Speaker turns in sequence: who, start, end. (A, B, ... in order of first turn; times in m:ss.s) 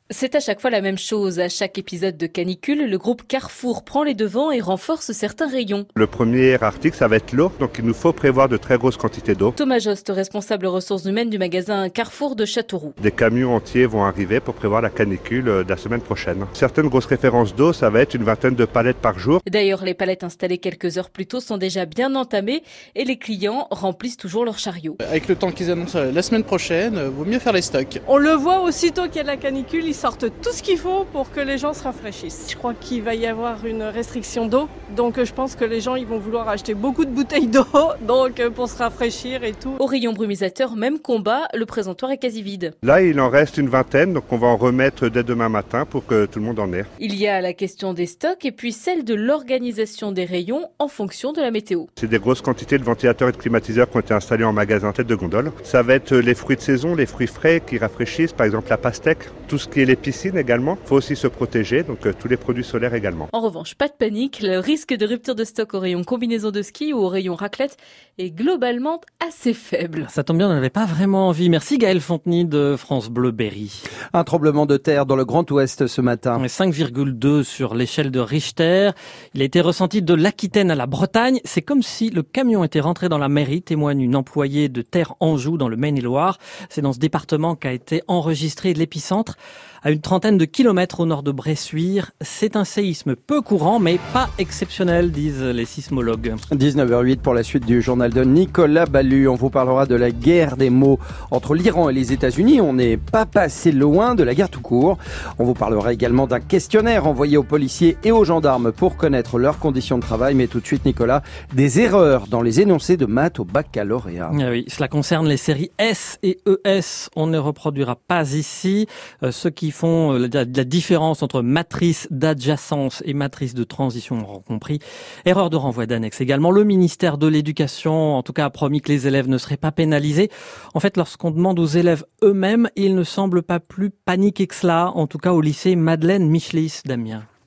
0:00.1-0:05.9 A
0:06.0-0:09.6 B
0:09.6-0:13.0 A
0:13.0-0:19.4 B
0:19.5-0:25.0 A
0:25.1-0:28.0 C
0:28.1-0:39.8 D
0:39.8-0:42.8 A
0:42.8-0:46.9 B
0:47.0-0:51.9 A
0:52.0-1:03.3 B
1:03.3-1:10.1 A
1:10.1-1:13.8 E
1:14.1-1:16.4 F
1:16.4-1:36.4 E
1:36.5-1:54.3 F
1:54.3-2:17.3 E